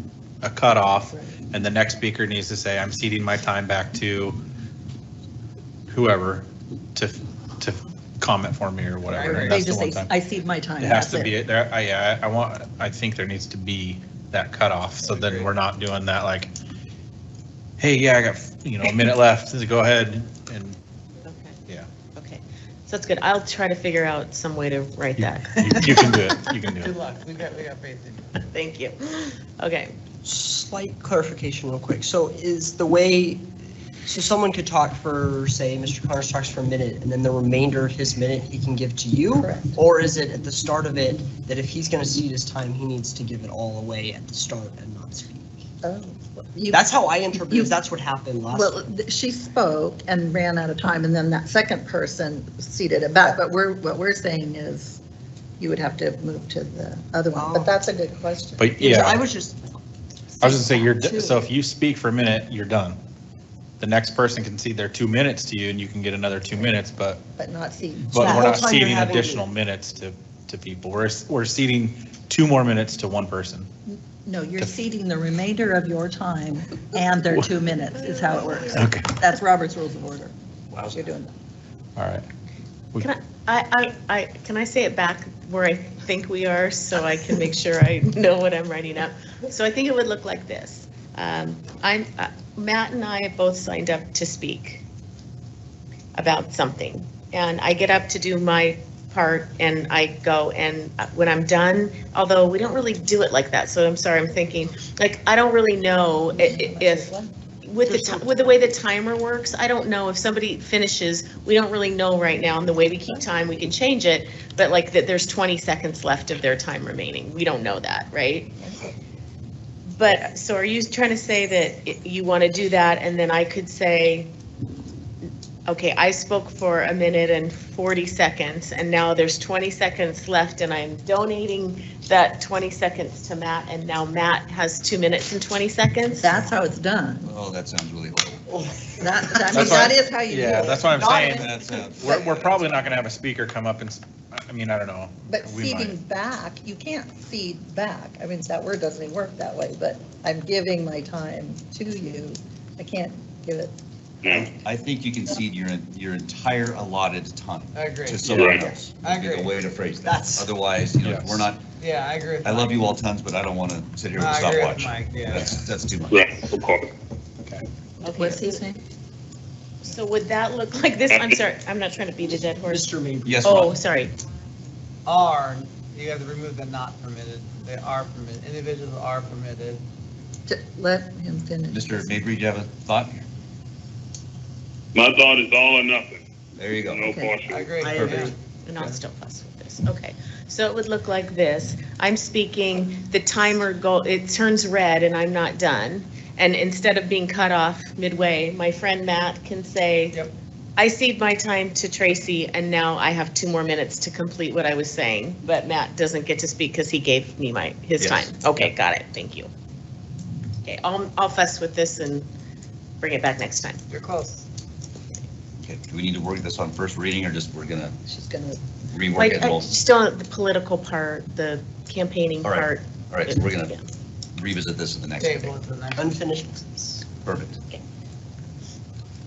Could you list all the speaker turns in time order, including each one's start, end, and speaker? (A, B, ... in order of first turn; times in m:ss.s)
0:00.4-0:04.4 A
0:00.9-0:01.3 B
0:05.9-0:10.1 A
0:09.1-0:09.6 C
0:09.2-0:11.3 B
0:10.8-0:16.5 A
0:15.0-0:15.5 C
0:17.8-0:20.8 A
0:21.2-0:21.6 D
0:22.2-0:26.2 D
0:25.2-0:26.9 A
0:26.8-0:28.3 C
0:28.5-0:29.9 D
0:30.2-0:33.5 E
0:34.0-0:45.5 E
0:39.3-0:39.8 B
0:45.8-0:47.8 B
0:46.7-0:48.8 E
0:48.5-0:55.0 B
0:55.6-0:58.8 B
0:57.4-0:57.8 E
0:58.6-0:59.2 A
0:58.8-0:59.6 E
1:00.4-1:01.4 E
1:00.4-1:03.0 A
1:03.8-1:07.2 A
1:07.4-1:08.6 B
1:08.1-1:13.7 A
1:08.1-1:09.4 E
1:13.9-1:20.3 B
1:18.7-1:19.1 A
1:20.7-1:21.1 F
1:20.9-1:21.3 B
1:22.0-1:22.2 A
1:23.0-1:34.8 D
1:36.1-1:47.1 D
1:46.3-1:47.4 B
1:47.6-1:58.5 D
1:59.8-2:04.3 D
2:05.7-2:16.2 D
2:16.1-2:17.3 B
2:17.2-2:18.4 F
2:19.0-2:21.4 B
2:19.5-2:19.9 F
2:19.5-2:26.0 A
2:20.9-2:22.8 F
2:22.0-2:22.3 B
2:25.3-2:33.8 B
2:34.2-2:34.5 G
2:34.3-2:41.6 F
2:37.7-2:38.2 C
2:38.2-2:38.8 G
2:39.0-2:39.6 C
2:40.0-2:40.5 E
2:41.0-2:41.5 A
2:41.8-2:42.8 C
2:42.4-2:46.2 F
2:44.1-2:45.4 C
2:46.1-2:46.9 G
2:48.0-2:48.6 D
2:48.1-2:48.8 B
2:49.8-2:52.9 D
2:51.1-2:51.4 G
2:52.6-2:53.7 E
2:53.2-2:53.8 F
2:53.4-2:54.1 D
2:55.0-2:59.8 C
3:00.5-3:02.2 B
3:01.7-3:03.2 F
3:04.9-3:06.2 G
3:06.5-3:07.2 F
3:06.8-3:07.7 G
3:07.0-3:07.3 B
3:07.5-3:09.0 C
3:07.8-3:08.3 E
3:07.8-3:08.3 F
3:08.6-3:20.2 D
3:20.8-3:29.5 D
3:28.0-3:28.7 F
3:30.6-3:32.3 D
3:33.0-3:33.8 D
3:33.9-3:34.4 C
3:35.6-3:38.0 F
3:38.1-3:38.6 B
3:38.9-3:39.8 F
3:39.1-3:43.9 D
3:42.4-3:43.7 F
3:44.3-3:45.5 F
3:45.2-3:46.2 C
3:45.9-3:47.0 E
3:47.2-3:47.6 F